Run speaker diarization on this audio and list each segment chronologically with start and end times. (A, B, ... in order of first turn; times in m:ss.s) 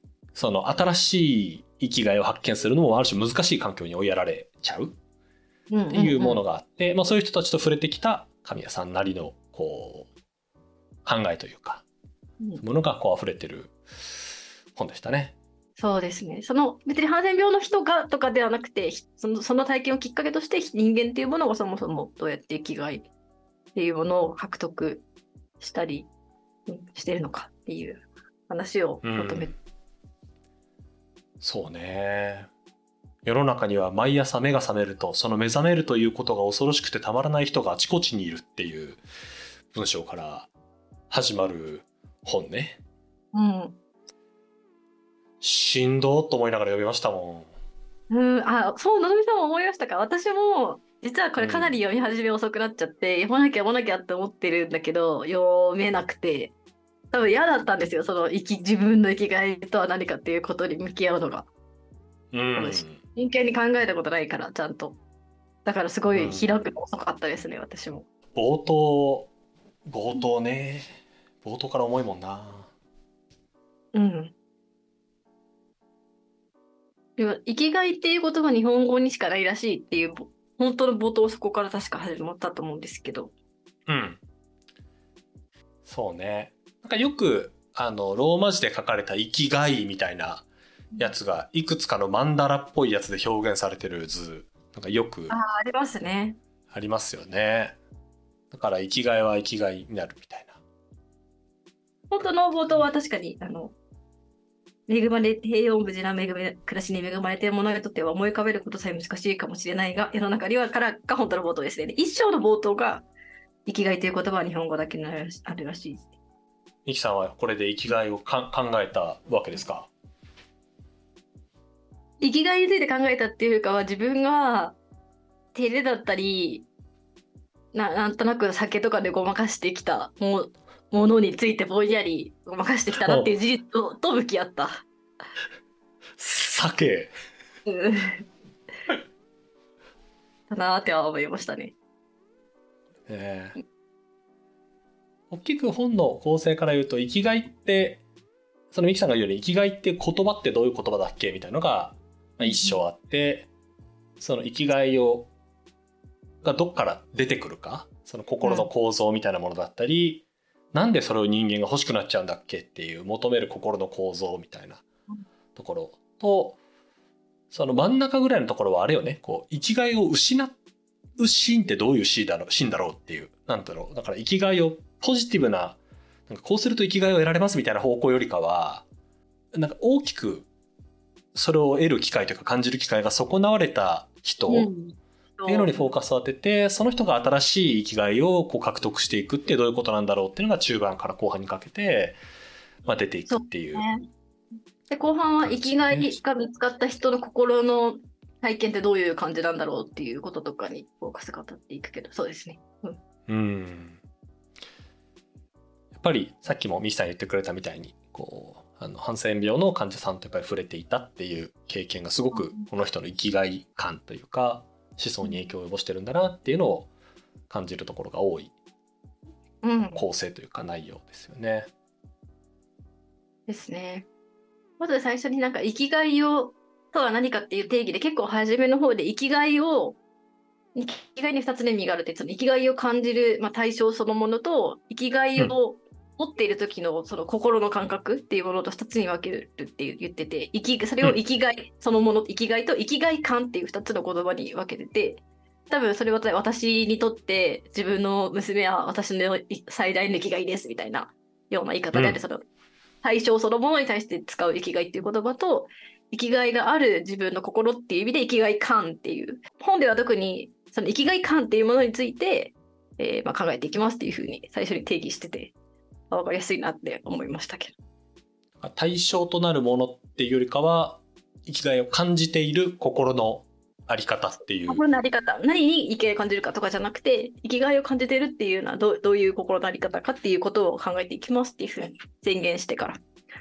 0:00.3-0:04.9 A
0:05.7-0:06.4 B
0:05.9-0:10.1 A
0:11.0-0:11.8 A
0:12.6-0:13.7 A
0:14.7-0:15.3 A
0:15.8-0:23.1 B
0:23.7-0:25.0 B
0:25.6-0:26.1 B
0:26.7-0:29.5 B
0:29.0-0:29.5 A
0:31.4-0:32.5 A
0:33.2-0:39.0 A
0:39.7-0:40.5 A
0:41.1-0:42.8 A
0:43.3-0:43.8 B
0:45.4-0:47.5 A
0:48.1-0:56.5 B
0:51.4-0:51.8 A
0:57.1-1:01.5 B
1:02.3-1:03.0 A
1:02.6-1:05.0 B
1:05.6-1:08.0 B
1:06.1-1:06.5 A
1:08.3-1:09.3 A
1:09.8-1:12.7 A
1:13.9-1:14.3 B
1:17.2-1:23.3 B
1:23.9-1:24.2 A
1:25.8-1:30.4 A
1:31.0-1:35.4 A
1:35.3-1:36.4 B
1:36.7-1:37.8 A
1:38.5-1:40.6 A
1:42.1-1:43.7 B
1:42.2-1:42.8 A
1:44.9-1:53.0 B
1:53.6-1:56.1 B
1:56.8-1:59.9 A
2:02.2-2:04.8 B
2:05.5-2:06.7 B
2:07.7-2:14.8 B
2:13.0-2:13.3 A
2:16.2-2:17.1 A
2:17.6-2:18.3 B
2:20.5-2:21.7 B
2:23.1-2:23.6 A
2:25.3-2:28.0 A
2:28.7-2:33.5 A
2:32.4-2:32.8 B
2:34.2-2:35.3 A
2:36.4-2:44.8 A
2:38.4-2:38.7 B
2:45.5-2:46.6 A
2:47.5-2:50.6 A
2:51.2-2:58.8 A
2:59.5-3:00.5 A
3:01.3-3:04.7 A
3:04.5-3:05.9 B
3:05.5-3:12.2 A
3:12.8-3:13.8 A
3:13.3-3:14.0 B
3:14.9-3:23.0 B
3:15.4-3:16.2 A
3:23.3-3:24.0 A
3:25.9-3:36.9 A
3:32.3-3:32.6 B
3:37.5-3:38.5 A
3:39.6-3:40.0 B
3:39.9-3:41.7 A
3:43.5-3:44.0 B
3:44.8-3:50.0 B
3:50.7-4:12.4 B
4:11.9-4:12.2 A
4:13.0-4:25.5 B
4:26.1-4:27.7 B
4:28.6-4:34.8 A
4:34.7-4:43.0 B